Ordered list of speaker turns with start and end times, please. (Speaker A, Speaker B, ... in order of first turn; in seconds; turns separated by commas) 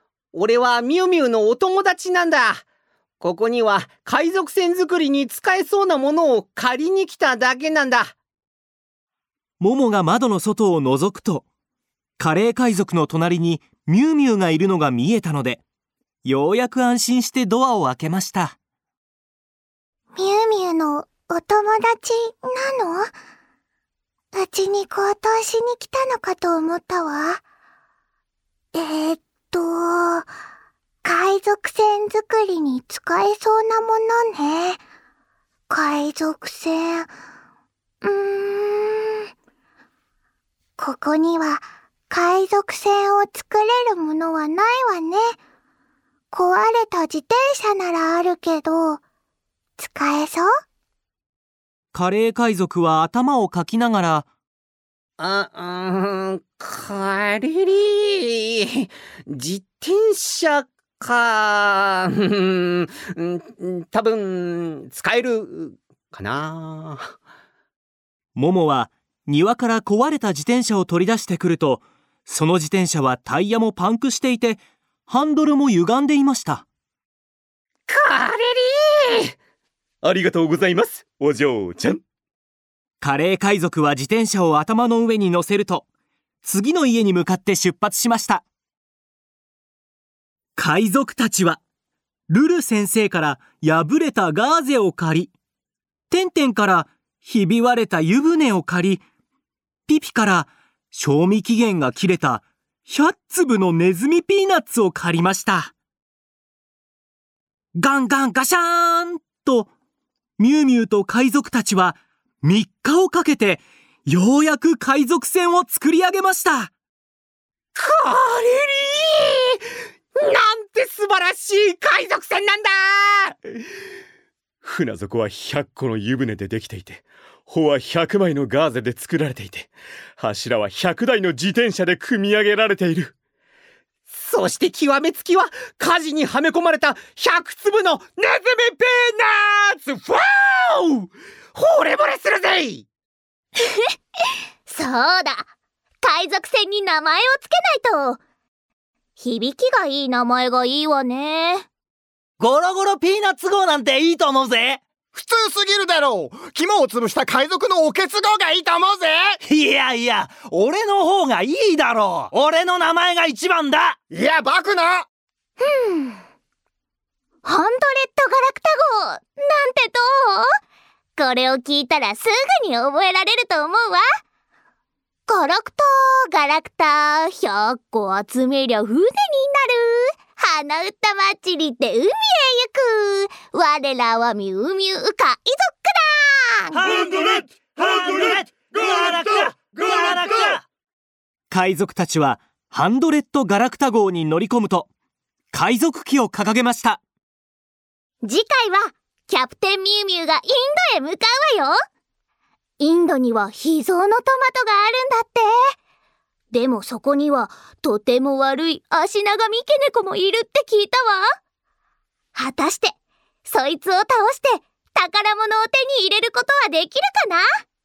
Speaker A: 0.3-2.6, Speaker A: 3.2-8.2, Speaker B: 9.6-11.4, Speaker B: 12.2-15.6, Speaker B: 16.2-18.6, Speaker C: 20.1-23.1, Speaker C: 24.3-27.4, Speaker C: 28.7-30.3, Speaker C: 31.0-34.8, Speaker C: 35.7-37.1, Speaker C: 38.0-39.2, Speaker C: 40.8-45.4, Speaker C: 46.3-49.0, Speaker C: 49.8-50.5, Speaker B: 51.9-54.3, Speaker A: 55.2-67.1, Speaker B: 68.4-76.7, Speaker A: 77.9-79.3, Speaker D: 80.0-82.0, Speaker B: 83.0-85.8, Speaker B: 86.4-88.4, Speaker B: 90.6-91.6, Speaker B: 92.3-95.3, Speaker B: 96.1-99.0, Speaker B: 99.9-105.7, Speaker B: 107.8-109.7, Speaker B: 110.4-116.7, Speaker A: 117.8-119.6, Speaker A: 120.2-123.3, Speaker D: 124.6-133.1, Speaker A: 134.1-142.9, Speaker C: 144.7-145.5, Speaker C: 146.0-148.2, Speaker C: 149.2-151.7, Speaker E: 152.4-154.8, Speaker F: 155.1-159.4, Speaker E: 159.4-164.0, Speaker F: 164.1-165.1, Speaker C: 165.6-166.2, Speaker C: 167.4-170.5, Speaker C: 171.2-174.0, Speaker C: 175.3-186.8, Speaker E: 186.7-190.7, Speaker B: 191.5-194.9, Speaker B: 195.5-197.0, Speaker C: 198.2-201.8, Speaker C: 202.8-205.5, Speaker C: 206.5-211.3, Speaker C: 212.3-212.9, Speaker C: 213.5-217.4